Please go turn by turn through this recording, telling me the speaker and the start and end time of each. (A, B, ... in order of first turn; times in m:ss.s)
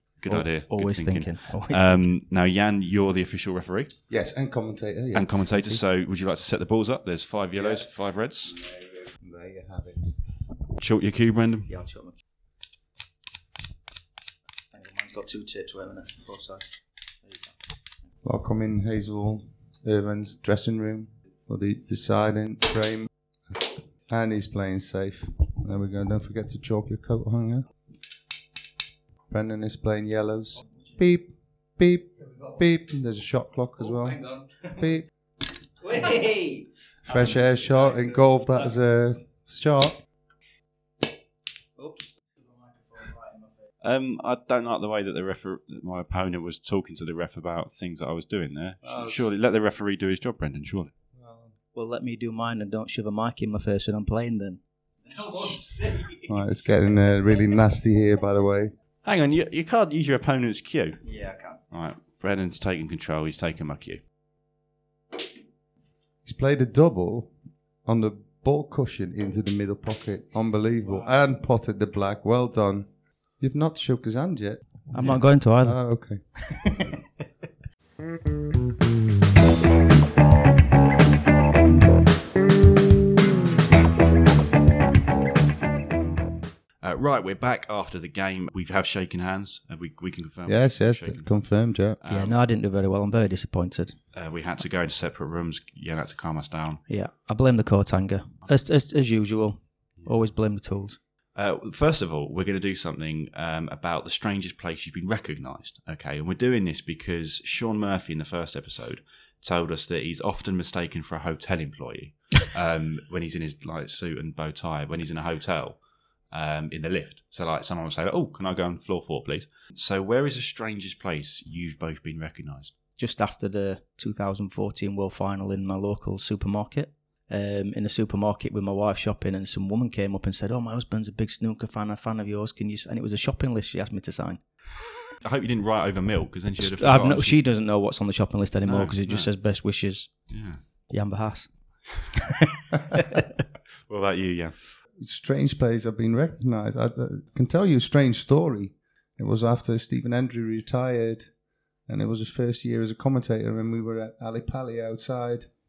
0:00.2-0:03.9 A
0:00.3-0:02.0 B
0:04.1-0:05.8 C
0:05.1-0:08.6 A
0:07.6-0:07.9 C
0:08.5-0:10.3 C
0:10.8-0:11.7 A
0:11.7-0:12.2 B
0:14.7-0:16.7 B
0:17.2-0:17.6 B
0:18.2-0:27.6 C
0:29.3-0:35.1 C
0:33.8-0:34.9 B
0:35.8-0:38.2 B
0:37.1-0:40.0 C
0:41.8-0:43.6 B
0:43.8-0:50.9 A
0:48.8-0:49.3 C
0:51.2-0:51.5 C
0:51.7-0:56.7 B
0:56.3-0:58.7 C
0:59.0-1:01.0 A
1:01.0-1:01.6 B
1:01.7-1:04.0 A
1:06.2-1:07.3 C
1:07.8-1:16.2 C
1:14.9-1:15.8 B
1:16.4-1:16.9 B
1:26.8-1:31.3 A
1:30.5-1:32.0 C
1:32.0-1:32.4 A
1:32.1-1:34.0 B
1:34.1-1:36.8 A
1:36.9-1:41.0 B
1:41.4-1:55.8 A
1:56.3-2:02.7 A
2:03.0-2:14.4 B
2:15.2-2:17.4 A
2:16.6-2:20.1 B
2:18.7-2:19.3 A
2:20.3-2:20.6 A
2:20.9-2:21.5 B
2:22.4-2:23.2 B
2:23.9-2:24.6 A
2:25.0-2:31.3 C
2:31.9-2:35.5 C